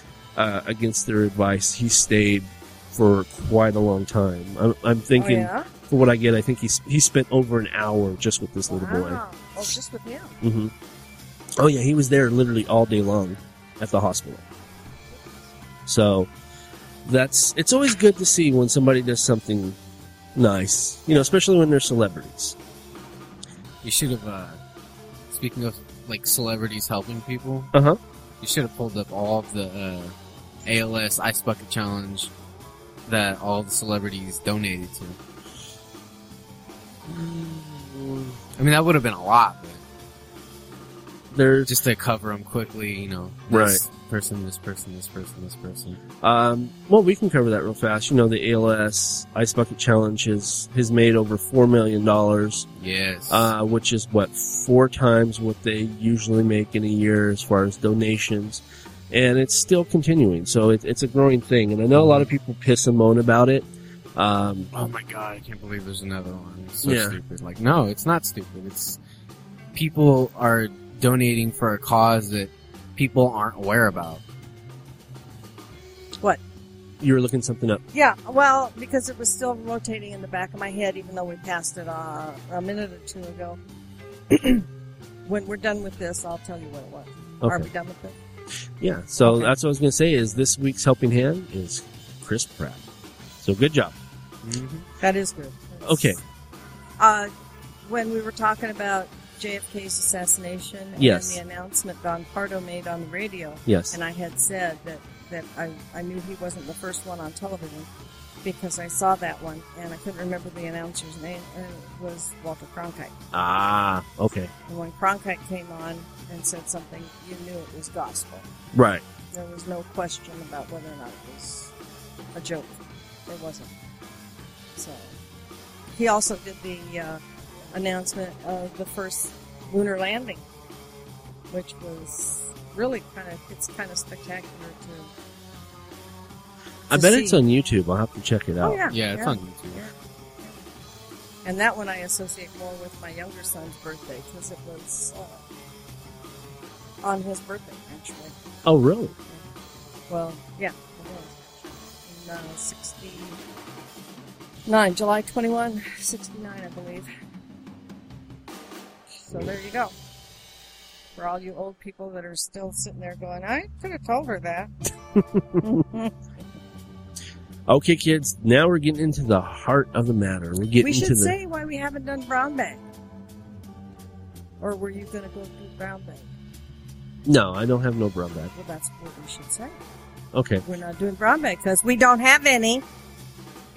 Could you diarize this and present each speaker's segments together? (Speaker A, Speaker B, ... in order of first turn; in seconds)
Speaker A: 0.3-9.2, 10.4-10.7, 11.6-14.4, 15.8-16.3, 17.0-19.8, 20.3-22.6, 27.7-28.0, 37.1-38.3, 41.3-41.7, 43.5-43.8, 46.2-52.6, 53.3-64.7, 66.8-67.2, 77.0-77.8, 87.4-87.7, 88.8-92.8, 93.4-93.9, 95.8-96.2, 101.0-101.4, 103.7-103.9, 113.3-114.5, 118.7-119.0, 136.9-138.8, 148.6-149.2, 165.2-165.6, 167.7-171.3, 177.2-178.5, 180.3-180.6
Speaker B: 5.2-5.7, 8.7-10.4, 77.9-83.6, 84.3-84.6, 85.2-88.2, 89.2-89.5, 95.0-96.2, 97.0-97.3, 97.8-107.9, 108.4-113.1, 114.7-118.5, 119.3-121.7, 122.3-123.7, 124.8-125.1, 126.0-127.2, 127.7-130.4, 131.5-135.1, 136.9-137.4, 138.6-140.6, 141.4-145.4, 147.0-148.3, 150.1-153.4, 154.7-157.1, 159.2-159.9, 161.2-164.7, 165.6-166.1, 170.8-172.8, 174.6-176.3, 178.5-179.8, 180.6-182.8
Speaker C: 23.8-24.6, 25.3-27.7, 28.4-30.1, 30.6-32.3, 33.1-35.2, 38.6-39.8, 41.7-46.0, 52.8-53.5, 61.9-62.3, 64.7-69.0, 69.7-74.2, 94.4-94.9, 138.9-139.8